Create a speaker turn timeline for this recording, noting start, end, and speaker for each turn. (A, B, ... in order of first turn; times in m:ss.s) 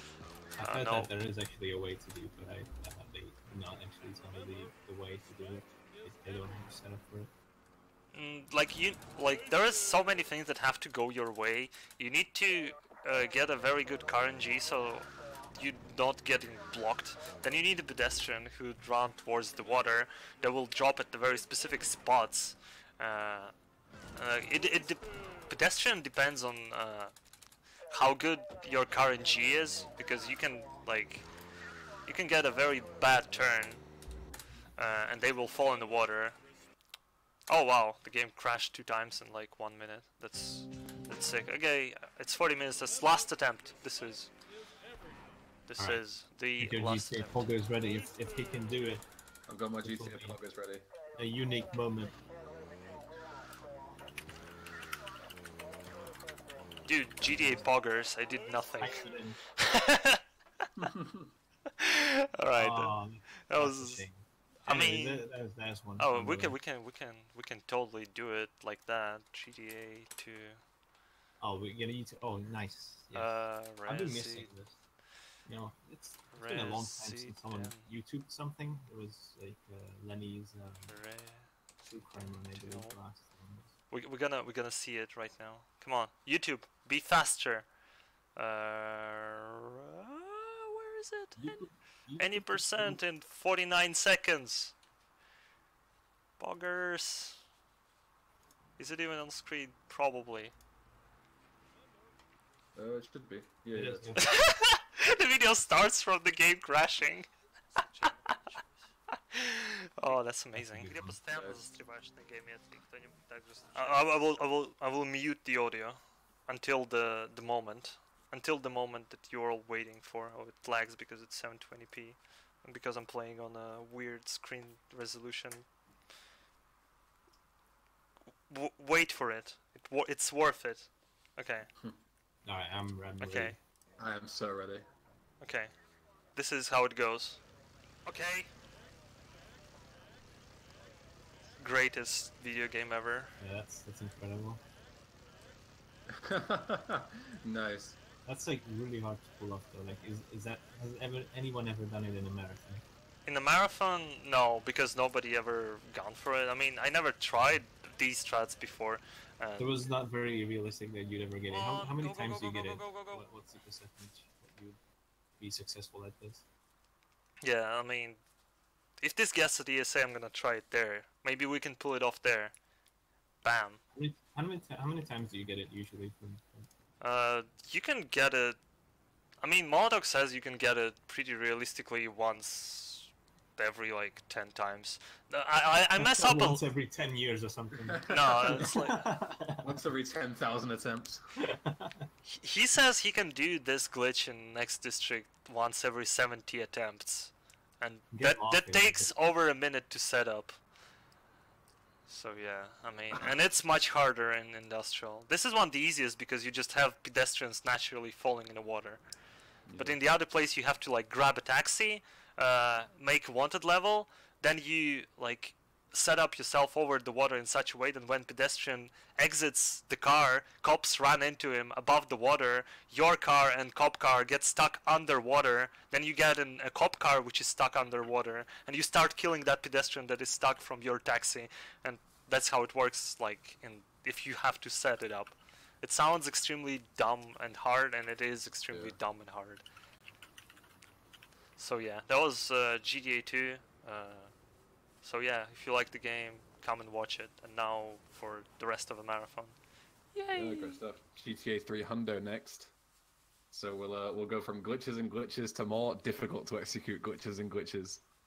0:00.6-0:07.3 A
0:00.6-0:01.1 B
0:08.1-0:23.5 B
0:24.2-0:27.1 B
0:27.9-0:31.3 B
0:32.0-0:33.8 B
0:34.8-0:36.4 B
0:37.5-0:44.3 B
0:45.7-0:47.4 B
0:46.6-0:49.0 A
0:49.5-0:50.8 C
0:49.8-0:50.4 A
0:51.2-0:52.2 A
0:56.9-1:00.7 B
0:58.8-0:59.4 A
1:00.8-1:01.3 C
1:01.6-1:04.0 B
1:02.6-1:06.5 A
1:04.7-1:05.3 B
1:06.0-1:10.6 B
1:11.4-1:14.8 A
1:13.1-1:14.5 B
1:15.4-1:21.0 A
1:16.3-1:17.9 B
1:20.9-1:21.5 B
1:21.8-1:23.7 A
1:22.5-1:23.0 B
1:23.9-1:27.7 B
1:28.4-1:34.7 B
1:31.4-1:33.0 A
1:36.4-1:37.4 B
1:38.8-1:40.5 B
1:42.8-1:44.2 C
1:43.7-1:44.2 A
1:44.2-1:47.3 B
1:47.8-1:48.4 B
1:49.3-2:05.7 B
1:50.6-1:51.1 A
1:51.3-1:51.6 C
2:08.5-2:11.7 B
2:12.4-2:13.6 A
2:13.2-2:13.6 B
2:14.0-2:14.8 C
2:15.4-2:15.7 B
2:16.4-2:17.4 B
2:18.0-2:18.5 B
2:21.6-2:23.3 B
2:23.4-2:24.6 A
2:26.1-2:28.0 C
2:28.2-2:32.8 A
2:33.2-2:39.7 B
2:39.6-2:44.8 A
2:41.5-2:43.2 B
2:45.4-2:46.4 A
2:47.4-2:48.2 B
2:49.0-2:52.5 B
2:53.4-2:53.8 B
2:53.9-2:56.7 A
2:57.0-2:58.6 B
2:59.4-3:06.6 B
3:06.0-3:09.7 A
3:07.9-3:08.7 C
3:08.1-3:09.0 B
3:09.6-3:11.2 C
3:11.5-3:12.0 A
3:12.2-3:20.6 B
3:18.1-3:19.1 A
3:22.1-3:29.0 B
3:29.6-3:30.0 C
3:29.8-3:59.6 B
3:58.7-3:59.0 C
4:01.6-4:04.3 B
4:05.0-4:09.6 B
4:10.1-4:10.8 B
4:10.3-4:12.7 C
4:13.5-4:18.0 C